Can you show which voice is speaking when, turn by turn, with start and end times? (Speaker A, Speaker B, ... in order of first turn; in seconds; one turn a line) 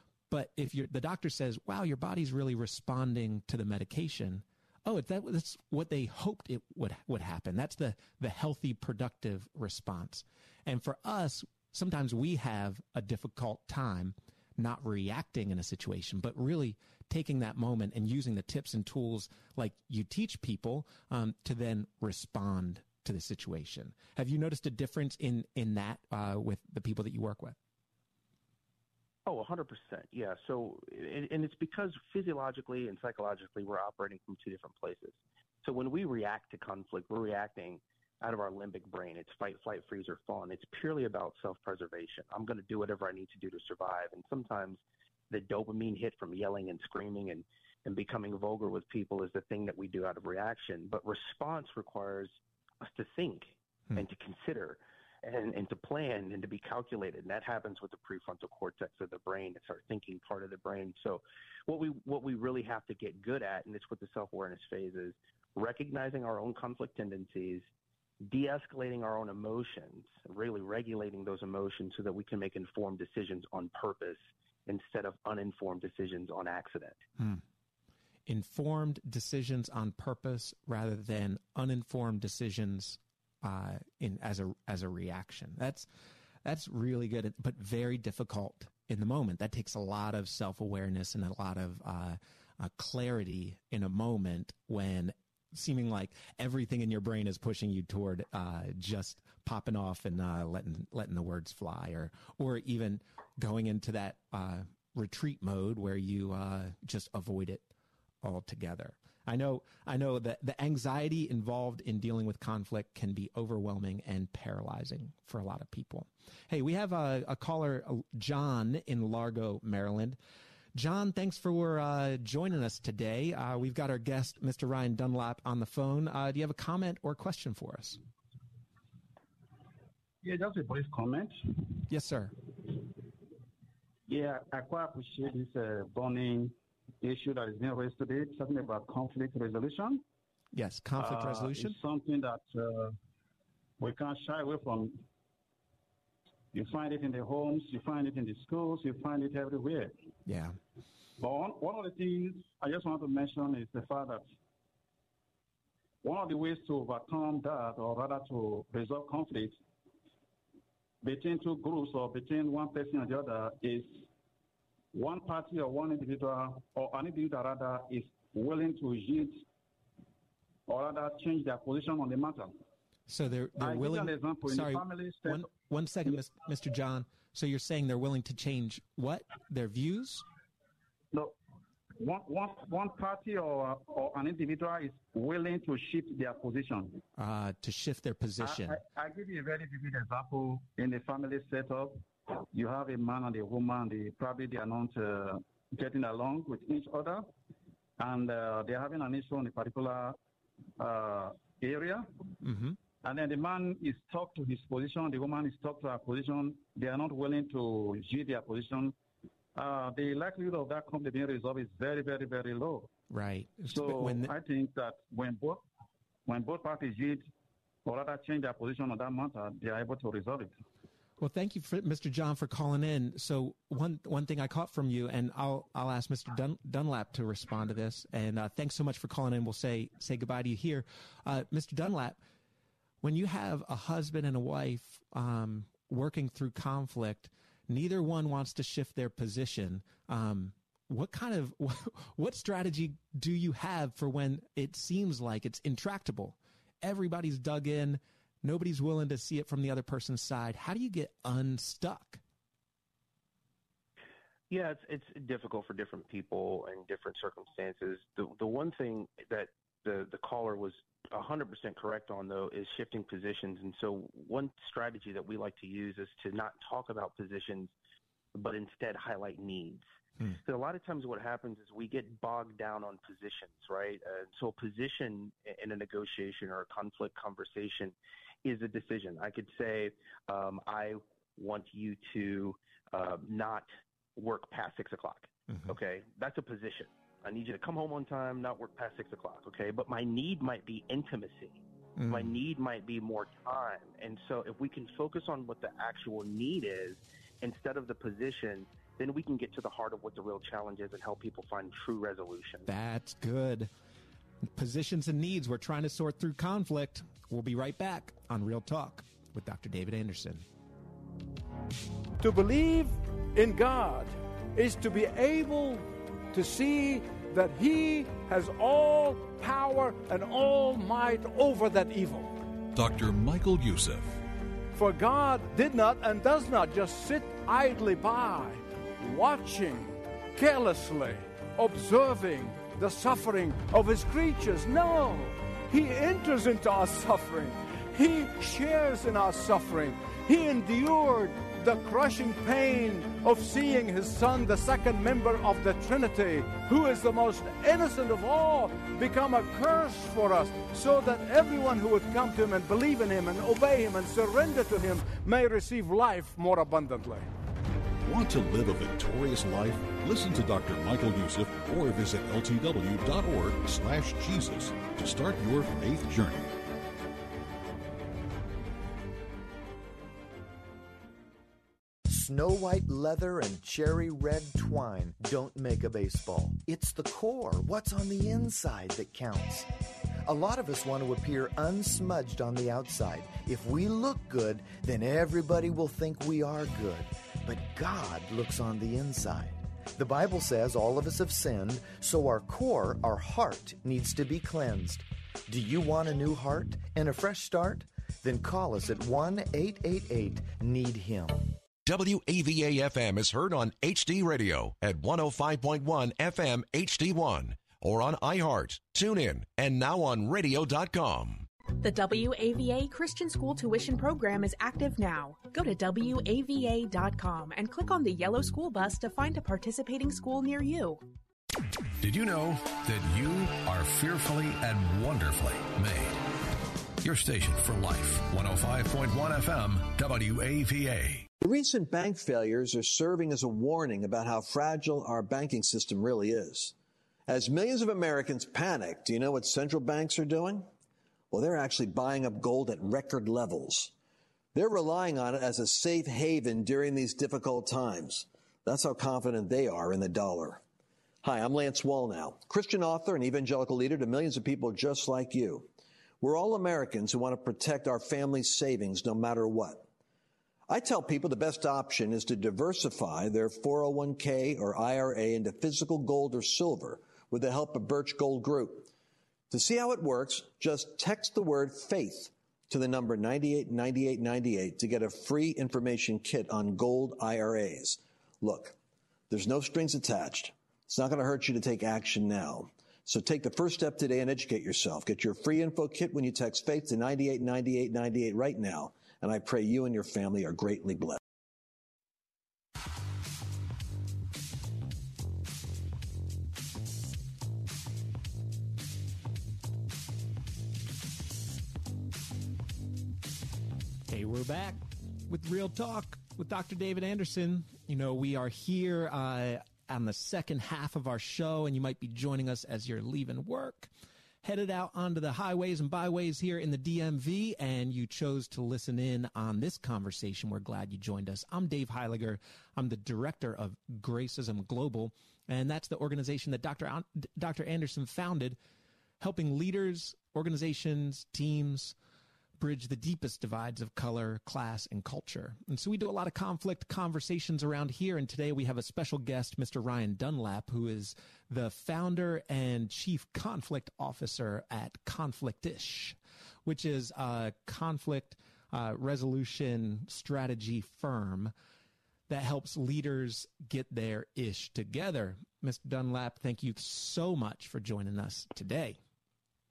Speaker A: 0.3-27.6
Speaker B: 29.3-67.7
Speaker B: 68.2-77.0
Speaker A: 78.3-85.9
Speaker A: 86.4-107.7
Speaker A: 108.2-120.2
Speaker A: 120.8-128.0
Speaker C: 130.2-131.7
Speaker A: 131.9-132.3
Speaker C: 134.1-140.0
Speaker A: 140.5-141.8
Speaker C: 141.0-142.9
Speaker C: 143.8-145.0
Speaker C: 146.5-149.9
Speaker A: 150.3-150.6
Speaker C: 151.2-154.2
Speaker C: 156.0-159.6
Speaker C: 161.0-164.1
Speaker C: 164.9-169.4
Speaker C: 170.7-172.5
Speaker A: 173.1-180.2
Speaker C: 173.6-175.5
Speaker C: 182.0-187.0
Speaker A: 187.2-188.8
Speaker C: 188.4-197.3
Speaker C: 198.0-200.2
Speaker C: 200.8-202.1
Speaker A: 202.4-202.8
Speaker C: 203.0-208.9
Speaker C: 209.6-212.9
Speaker A: 213.1-214.3
Speaker C: 213.7-215.6
Speaker C: 216.3-217.3
Speaker C: 217.8-220.5
Speaker A: 221.2-232.2
Speaker A: 233.0-252.2
Speaker B: 254.5-267.7
Speaker B: 268.4-269.9
Speaker B: 270.4-302.7
Speaker A: 292.0-292.4
Speaker A: 302.7-303.7
Speaker A: 304.4-310.4
Speaker D: 312.2-322.4
Speaker E: 322.7-324.2
Speaker D: 324.7-357.3
Speaker E: 358.0-366.5
Speaker F: 372.1-379.7
Speaker F: 380.3-401.6
Speaker G: 401.9-411.5
Speaker H: 411.8-421.0
Speaker I: 422.0-426.1
Speaker I: 427.0-431.3
Speaker J: 431.4-436.7
Speaker J: 437.3-440.7
Speaker J: 441.3-443.9
Speaker J: 444.5-450.6
Speaker J: 451.2-455.7
Speaker J: 456.2-459.8
Speaker J: 460.7-468.9
Speaker J: 469.5-478.8
Speaker J: 479.3-491.2
Speaker A: 504.1-513.9
Speaker A: 514.4-528.6
Speaker A: 529.2-532.0
Speaker A: 532.6-551.5
Speaker A: 552.3-559.0